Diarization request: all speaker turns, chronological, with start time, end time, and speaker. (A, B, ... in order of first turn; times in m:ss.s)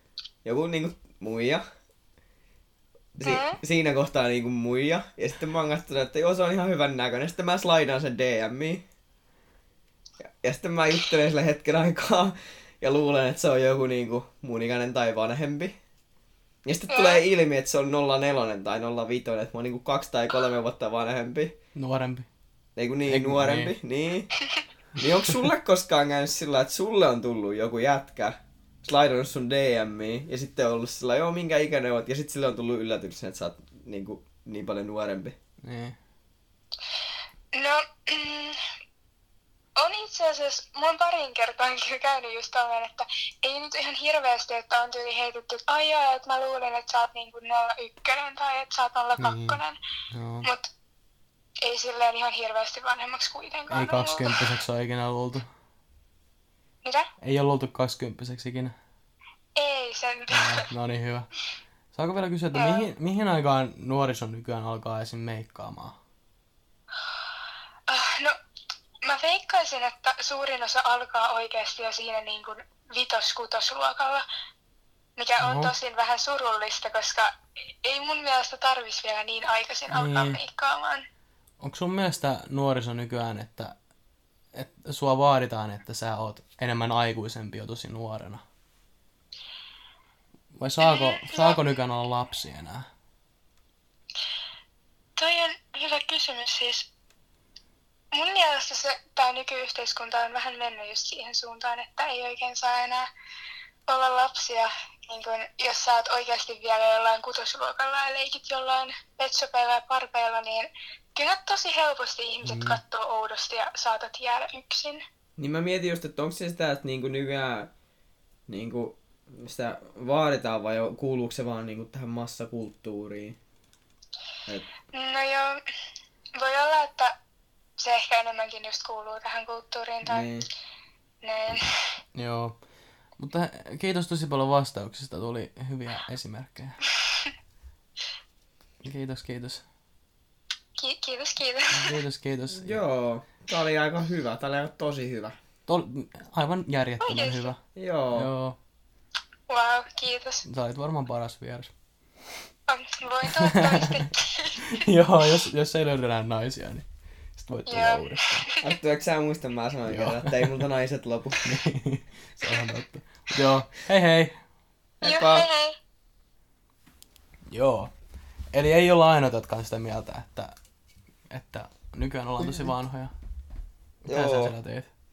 0:00.4-0:01.6 A
0:03.2-0:08.8 A
0:03.2-0:03.6 B
0:10.4-0:15.8 A
0:16.6-0:21.5 A
0:16.9-0:17.2 B
0:21.7-0:22.3 C
0:22.8-0:24.3 A
0:23.1-0:23.7 C
0:25.0-0:35.4 A
0:35.6-0:36.0 C
0:37.5-0:38.6 B
0:39.8-0:49.8 B
0:49.2-0:49.6 C
0:50.1-0:50.5 C
0:50.4-0:50.7 B
0:51.6-0:54.5 B
0:53.7-0:55.5 C
0:57.2-0:58.8 C
0:59.6-1:00.6 B
1:00.3-1:01.3 C
1:01.9-1:06.0 C
1:02.5-1:02.9 B
1:07.9-1:08.4 B
1:09.0-1:14.2 B
1:15.2-1:21.0 B
1:15.4-1:15.7 C
1:19.9-1:20.4 C
1:21.6-1:23.7 C
1:24.5-1:28.4 C
1:30.5-1:32.9 C
1:30.8-1:31.6 B
1:35.2-1:36.8 B
1:38.1-1:43.1 B
1:43.9-1:55.0 B
1:52.4-1:52.8 C
1:55.4-1:57.7 A
1:58.5-2:03.4 A
2:04.9-2:05.6 B
2:06.4-2:07.1 B
2:07.8-2:10.3 B
2:10.0-2:10.5 A
2:11.2-2:12.0 B
2:12.1-2:12.6 C
2:13.2-2:16.8 C
2:18.8-2:19.6 C
2:20.8-2:22.0 B
2:21.7-2:22.8 C
2:22.5-2:25.4 A
2:25.7-2:27.6 C
2:27.0-2:27.5 B
2:27.7-2:28.3 A
2:28.1-2:28.6 C
2:29.5-2:30.4 B
2:30.5-2:31.7 C
2:32.7-2:34.7 B
2:33.3-2:36.8 C
2:37.4-2:38.5 C
2:37.7-2:38.6 B
2:38.6-2:41.6 A
2:39.9-2:40.6 C
2:41.4-2:44.4 C
2:45.0-2:45.5 A
2:45.0-2:45.8 B
2:47.5-2:47.9 C
2:48.5-2:50.5 C
2:51.3-2:53.1 C
2:54.0-2:54.5 A
2:54.1-2:54.9 C